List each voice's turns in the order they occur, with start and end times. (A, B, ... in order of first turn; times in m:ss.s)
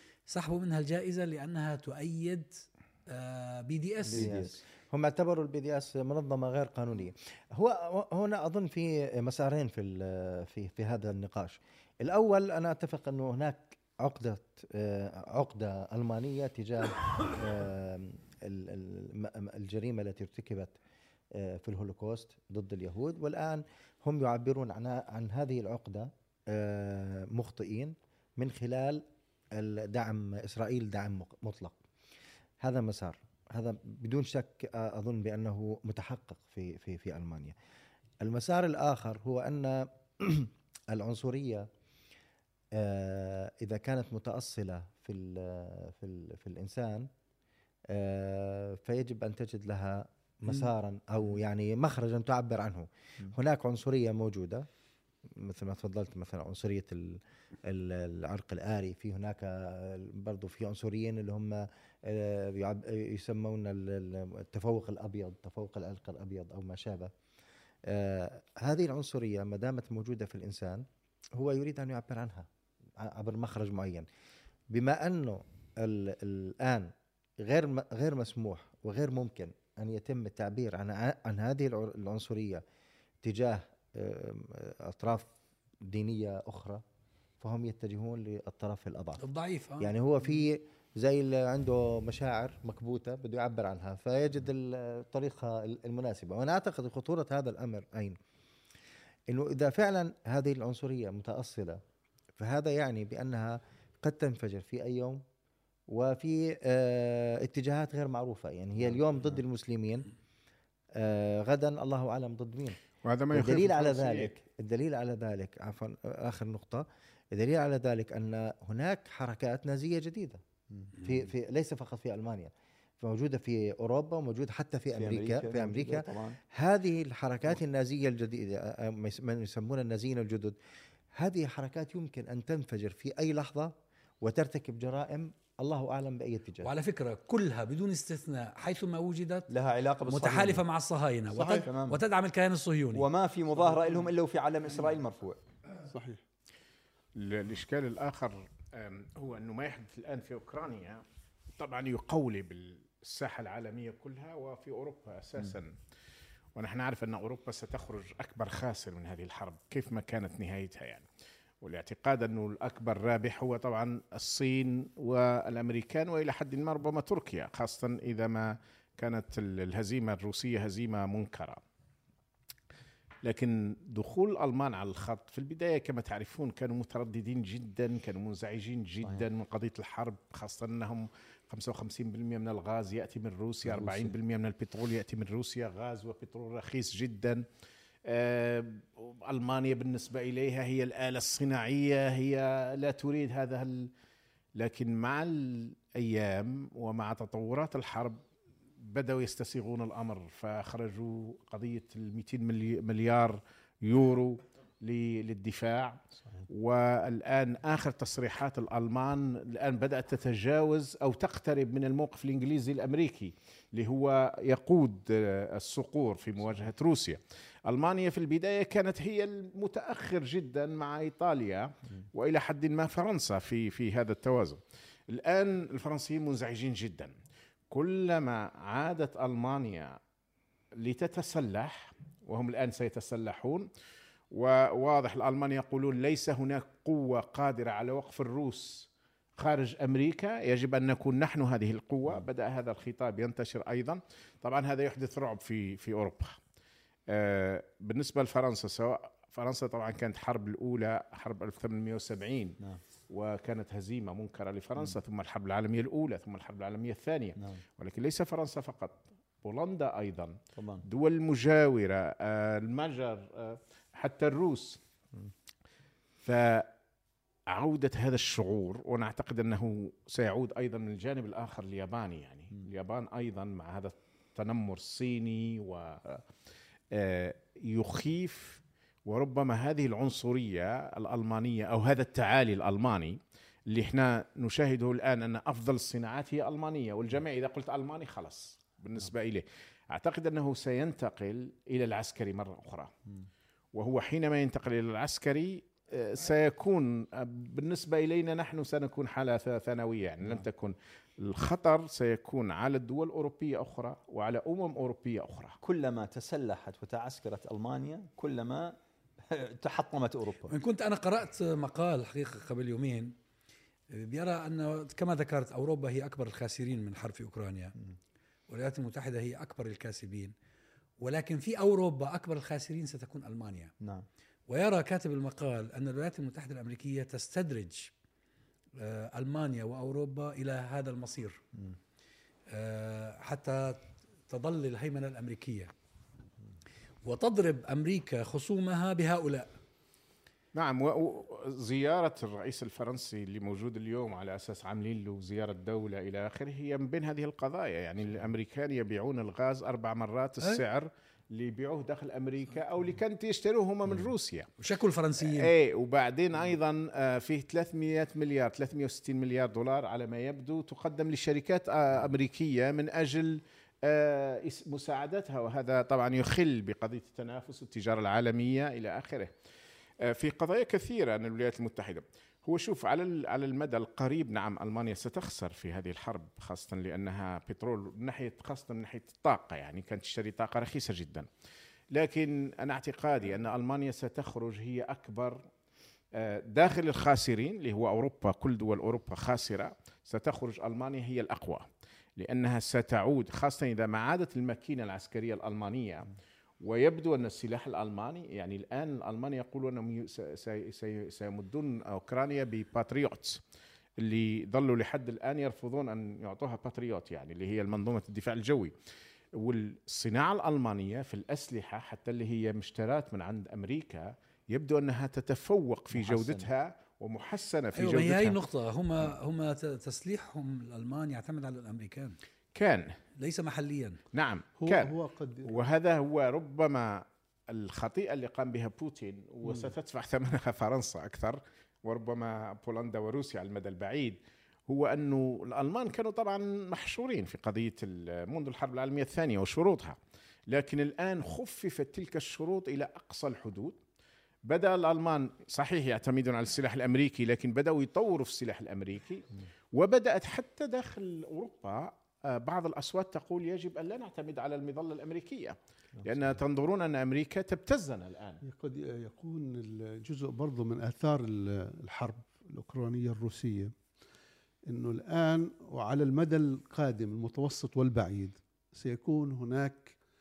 0:00.3-0:04.4 A
0:04.1-0:04.6 B
0:04.1-0:20.8 C
0:21.3-0:31.8 C
0:32.6-0:37.6 C
0:38.2-0:41.7 C
0:42.7-0:47.1 C
0:47.9-0:54.7 C
0:55.3-1:07.1 C
1:07.9-1:14.1 C
1:14.7-1:22.6 C
1:23.2-1:25.3 C
1:25.8-1:26.8 C
1:27.4-1:29.2 C
1:29.2-1:29.9 A
1:29.8-1:38.2 C
1:39.3-1:41.8 C
1:42.4-1:45.2 C
1:45.9-1:50.1 C
1:48.8-1:49.4 B
1:51.0-1:52.8 C
1:53.0-1:54.4 D
1:53.3-2:00.4 C
2:01.0-2:10.6 C
2:05.0-2:06.4 B
2:11.1-2:16.7 C
2:16.6-2:19.5 A
2:19.5-2:20.6 B
2:20.0-2:23.1 A
2:21.3-2:21.7 E
2:21.6-2:22.0 B
2:22.9-2:25.4 B
2:25.9-2:26.2 E
2:27.2-2:31.0 D
2:31.6-2:35.7 D
2:36.6-2:41.0 D
2:41.6-2:51.6 D
2:53.2-3:07.4 D
3:03.6-3:04.2 B
3:08.1-3:13.9 D
3:14.6-3:18.2 D
3:18.8-3:47.1 D
3:47.7-3:50.0 D
3:50.8-3:53.7 D
3:54.3-4:06.4 D
4:07.1-4:24.8 D
4:20.6-4:20.8 B
4:26.2-4:26.7 D
4:27.5-4:36.3 D
4:36.9-4:43.2 D
4:43.7-4:52.9 D
4:53.7-5:05.6 D
5:05.6-5:08.8 B
5:09.3-5:10.5 B
5:10.5-5:13.1 A
5:13.9-5:17.7 A
5:18.5-5:20.3 A
5:21.0-5:23.7 A
5:23.8-5:24.1 B
5:24.5-5:27.9 A
5:28.8-5:31.4 A
5:32.5-5:35.7 A
5:37.0-5:39.5 A
5:40.6-5:54.5 D
5:54.6-5:55.5 A
5:55.2-6:09.3 D
6:10.0-6:21.3 D
6:21.9-6:25.4 D
6:26.1-6:31.7 D
6:32.2-6:43.4 D
6:44.0-6:48.7 D
6:49.4-6:58.4 D
6:55.9-6:56.5 B
6:57.8-7:02.2 A
7:02.5-7:03.0 D
7:03.2-7:04.0 A
7:04.1-7:04.9 D
7:04.6-7:05.6 E
7:05.4-7:14.2 D
7:14.7-7:20.0 D
7:20.5-7:23.8 D
7:24.4-7:38.4 D
7:38.4-7:43.7 E
7:44.7-7:50.0 E